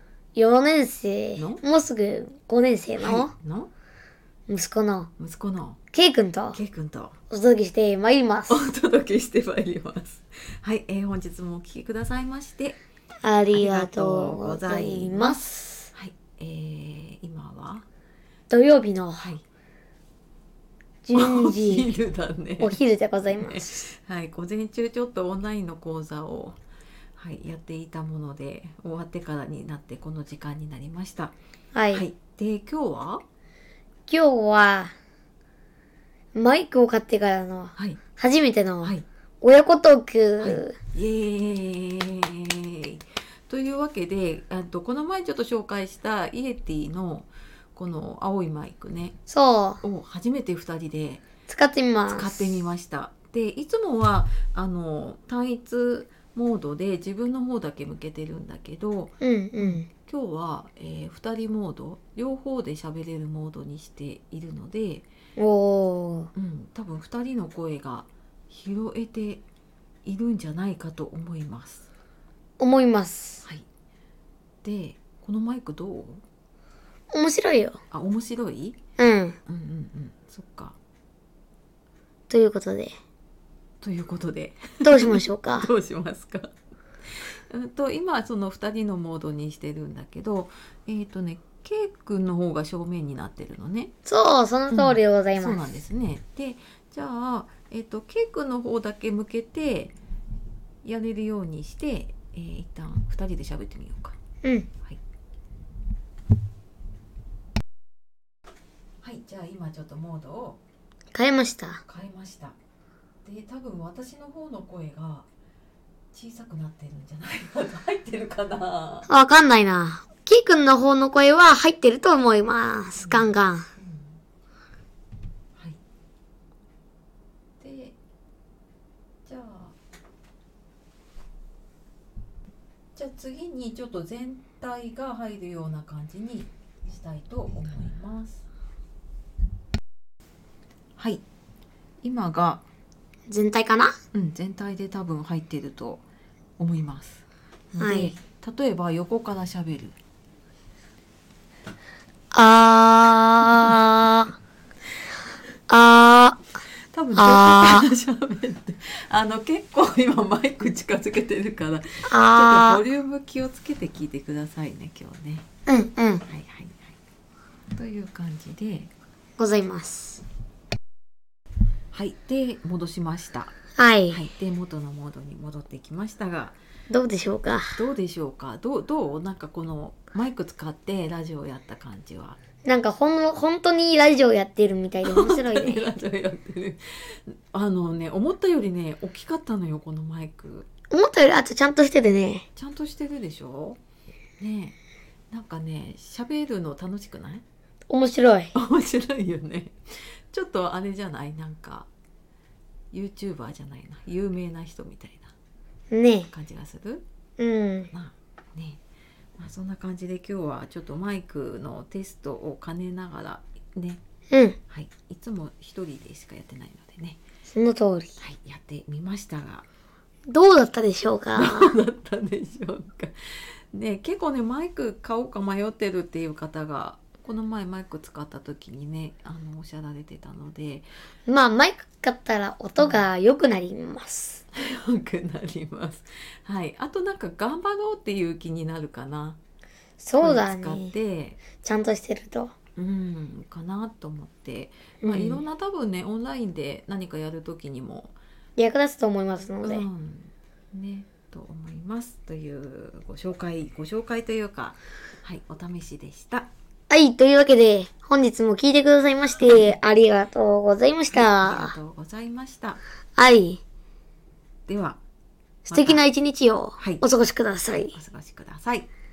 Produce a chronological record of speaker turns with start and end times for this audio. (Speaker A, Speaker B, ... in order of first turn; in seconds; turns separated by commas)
Speaker A: 0.3-3.3, Speaker B: 1.4-1.6, Speaker B: 3.0-3.7, Speaker A: 4.5-5.1, Speaker B: 5.2-5.8, Speaker A: 5.9-6.6, Speaker B: 6.5-7.2, Speaker A: 7.3-8.6, Speaker B: 8.5-12.8, Speaker A: 13.2-15.9, Speaker B: 13.5-17.9, Speaker A: 18.5-19.3, Speaker B: 19.2-19.4, Speaker A: 21.0-21.9, Speaker B: 21.1-26.6, Speaker A: 22.6-23.9, Speaker B: 27.1-31.3, Speaker A: 31.7-32.0, Speaker B: 31.9-33.2, Speaker A: 34.1-34.9, Speaker A: 36.3-40.7, Speaker B: 40.4-49.2, Speaker A: 49.3-49.8, Speaker B: 49.8-51.2, Speaker A: 51.5-52.5, Speaker B: 52.1-65.1, Speaker A: 59.2-59.9, Speaker A: 65.4-66.3, Speaker B: 66.3-69.4, Speaker B: 70.0-71.9, Speaker A: 72.6-73.4, Speaker B: 74.6-76.2, Speaker A: 77.1-77.8, Speaker B: 77.9-78.8, Speaker A: 79.0-79.4, Speaker B: 79.5-80.8, Speaker A: 82.3-83.0, Speaker B: 83.8-86.5, Speaker A: 84.8-85.7, Speaker B: 87.5-93.9, Speaker A: 94.0-95.6, Speaker B: 94.7-100.0, Speaker B: 100.8-104.2, Speaker A: 104.4-104.7, Speaker B: 109.0-110.6, Speaker A: 111.1-111.8, Speaker B: 111.8-112.5, Speaker B: 113.2-115.3, Speaker B: 116.1-119.1, Speaker A: 119.1-123.7, Speaker B: 123.0-124.2, Speaker B: 127.6-128.0, Speaker B: 129.2-129.8, Speaker B: 132.9-138.4, Speaker B: 140.9-141.2, Speaker B: 142.0-142.6, Speaker A: 143.3-144.0, Speaker B: 144.1-146.0, Speaker B: 146.6-150.0, Speaker A: 147.8-148.1, Speaker A: 152.3-154.3, Speaker A: 155.7-156.4, Speaker B: 156.9-165.5, Speaker A: 157.2-157.9, Speaker A: 162.1-162.8, Speaker A: 165.7-166.2, Speaker B: 166.2-167.0, Speaker B: 167.7-168.9, Speaker A: 169.4-170.2, Speaker B: 171.9-173.6, Speaker A: 173.8-174.2, Speaker B: 174.1-176.6, Speaker A: 176.9-177.8, Speaker B: 177.7-182.4, Speaker A: 182.6-185.9, Speaker B: 185.0-190.7, Speaker A: 190.9-192.4, Speaker B: 192.5-193.8, Speaker B: 194.4-194.8, Speaker B: 195.3-197.4, Speaker A: 197.9-198.5, Speaker B: 198.5-199.7, Speaker B: 200.3-201.9, Speaker B: 202.9-205.3, Speaker A: 205.9-206.3, Speaker B: 206.3-207.0, Speaker A: 207.4-207.9, Speaker B: 207.9-208.8, Speaker B: 209.4-214.0, Speaker A: 214.3-214.6, Speaker B: 214.7-217.2, Speaker A: 217.5-218.1, Speaker B: 218.2-219.7, Speaker A: 220.3-221.7, Speaker B: 221.3-230.9, Speaker A: 231.3-234.4, Speaker B: 232.8-233.1, Speaker B: 234.5-239.4, Speaker A: 240.0-240.9, Speaker B: 240.2-241.4, Speaker A: 241.6-242.5, Speaker B: 242.8-248.1, Speaker A: 245.0-245.4, Speaker A: 248.6-249.8, Speaker B: 249.6-256.5, Speaker A: 256.9-261.7, Speaker B: 261.1-262.8, Speaker A: 263.2-263.6, Speaker B: 264.7-265.0, Speaker A: 265.6-267.9, Speaker B: 265.7-266.0, Speaker B: 266.8-267.0, Speaker B: 267.9-268.9